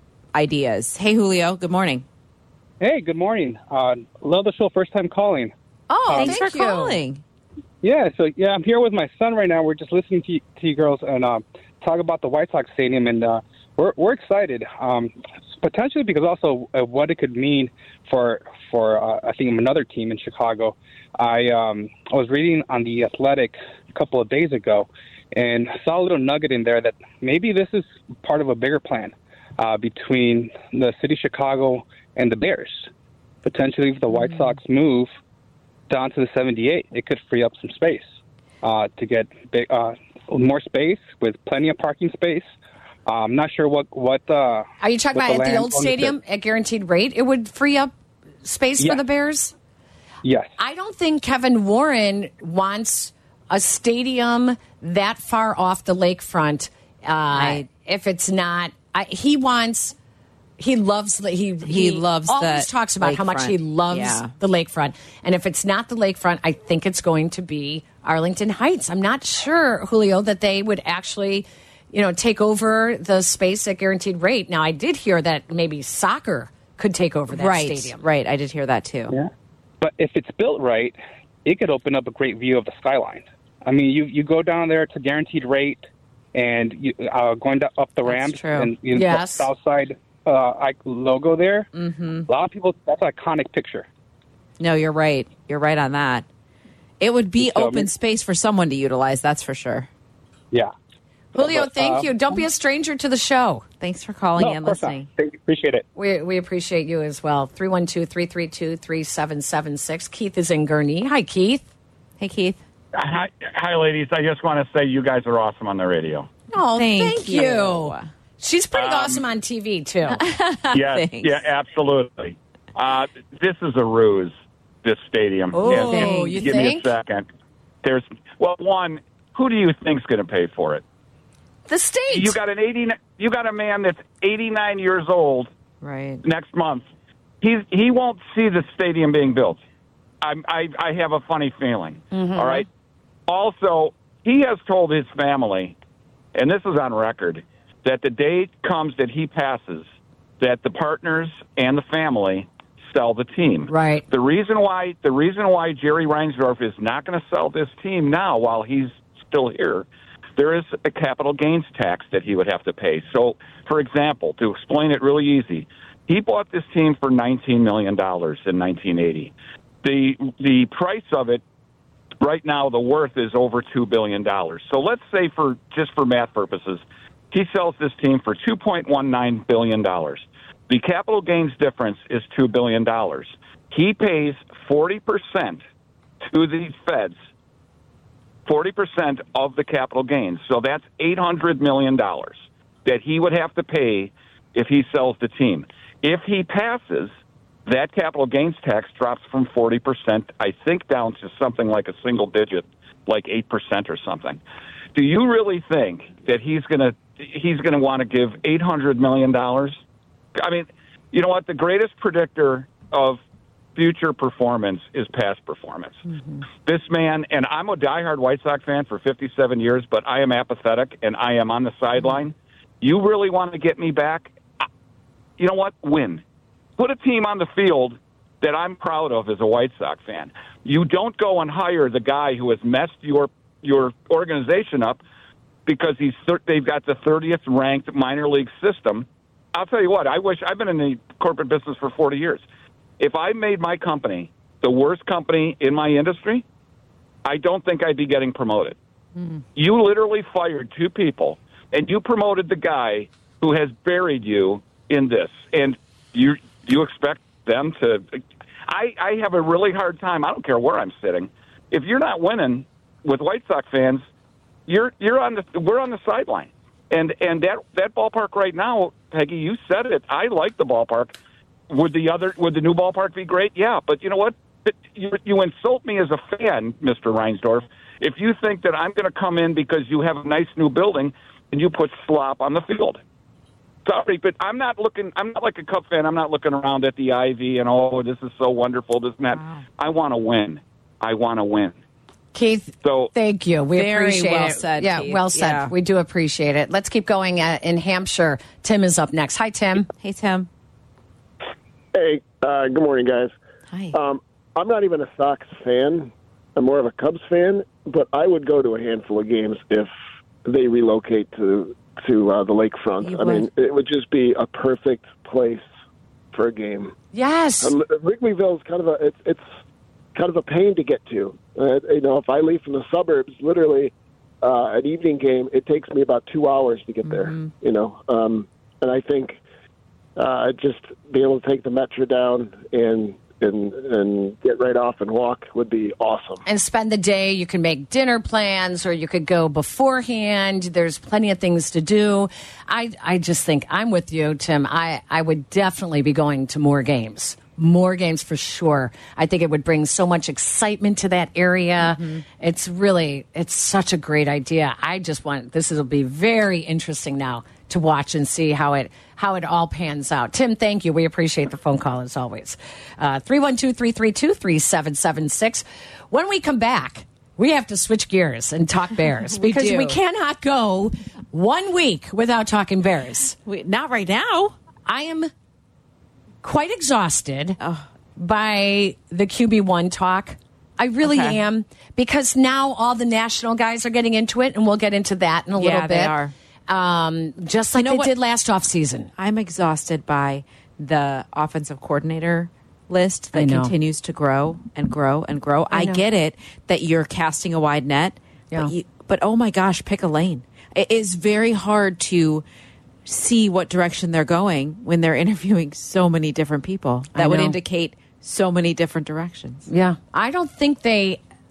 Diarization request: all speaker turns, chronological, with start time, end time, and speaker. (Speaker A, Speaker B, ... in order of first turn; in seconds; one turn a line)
Speaker A: 0.3-2.0
Speaker B: 2.8-5.5
Speaker C: 5.9-7.0
Speaker B: 6.1-6.3
Speaker A: 6.1-7.2
Speaker B: 7.8-32.9
Speaker B: 33.4-35.1
Speaker A: 34.1-34.5
Speaker B: 35.9-38.1
Speaker B: 38.6-42.5
Speaker B: 43.0-46.1
Speaker C: 44.8-47.9
Speaker C: 48.4-49.5
Speaker B: 50.2-50.5
Speaker C: 50.6-60.0
Speaker A: 57.3-57.7
Speaker C: 60.6-78.0
Speaker A: 61.6-64.3
Speaker A: 77.3-79.2
Speaker B: 79.8-91.7
Speaker A: 88.0-88.7
Speaker C: 88.9-89.5
Speaker A: 91.7-92.3
Speaker B: 92.3-93.9
Speaker A: 94.6-96.2
Speaker A: 97.0-99.9
Speaker B: 97.4-97.9
Speaker C: 101.3-103.6
Speaker B: 101.3-102.1
Speaker A: 103.8-105.1
Speaker B: 104.4-105.8
Speaker C: 106.0-111.7
Speaker A: 112.2-112.6
Speaker D: 112.9-116.3
Speaker C: 116.5-120.2
Speaker A: 116.7-118.1
Speaker D: 118.7-119.2
Speaker A: 120.1-121.4
Speaker D: 120.7-127.2
Speaker C: 125.5-126.9
Speaker A: 125.6-126.5
Speaker D: 127.8-130.8
Speaker C: 131.7-132.3
Speaker D: 132.1-135.5
Speaker A: 135.8-136.2
Speaker D: 136.2-136.9
Speaker D: 137.4-139.6
Speaker D: 140.2-142.7
Speaker C: 142.1-142.7
Speaker D: 143.3-145.7
Speaker D: 146.3-149.8
Speaker D: 150.4-159.8
Speaker C: 153.7-154.0
Speaker D: 160.4-171.4
Speaker D: 172.2-185.6
Speaker D: 186.2-187.2
Speaker D: 188.4-197.1
Speaker D: 197.7-204.4
Speaker D: 204.9-209.8
Speaker D: 210.3-213.2
Speaker D: 213.8-224.4
Speaker A: 216.1-216.4
Speaker D: 225.4-226.2
Speaker D: 226.8-235.0
Speaker D: 235.7-242.4
Speaker D: 243.0-246.4
Speaker D: 247.2-248.8
Speaker D: 249.6-264.0
Speaker D: 264.7-271.1
Speaker D: 271.7-283.0
Speaker D: 283.8-291.8
Speaker A: 289.3-289.6
Speaker C: 292.3-299.9
Speaker D: 292.8-293.1
Speaker A: 293.7-295.7
Speaker A: 299.9-300.5
Speaker E: 301.9-303.3
Speaker A: 303.7-304.0
Speaker E: 303.9-309.9
Speaker E: 310.4-315.7
Speaker A: 313.0-313.5
Speaker E: 316.3-316.9
Speaker C: 317.1-317.7
Speaker E: 317.6-319.4
Speaker E: 320.1-329.4
Speaker A: 327.0-327.5
Speaker E: 330.1-336.4
Speaker C: 336.4-373.4
Speaker A: 351.8-352.2
Speaker A: 369.1-370.0
Speaker A: 373.4-374.5
Speaker C: 374.9-375.3
Speaker C: 376.4-377.6
Speaker A: 377.6-377.9
Speaker C: 378.2-386.2
Speaker A: 381.0-381.4
Speaker A: 385.6-386.3
Speaker C: 386.7-389.1
Speaker A: 387.7-388.1
Speaker A: 389.2-402.4
Speaker C: 393.3-393.7
Speaker C: 395.7-396.0
Speaker A: 403.1-409.7
Speaker C: 407.1-407.6
Speaker C: 409.7-411.2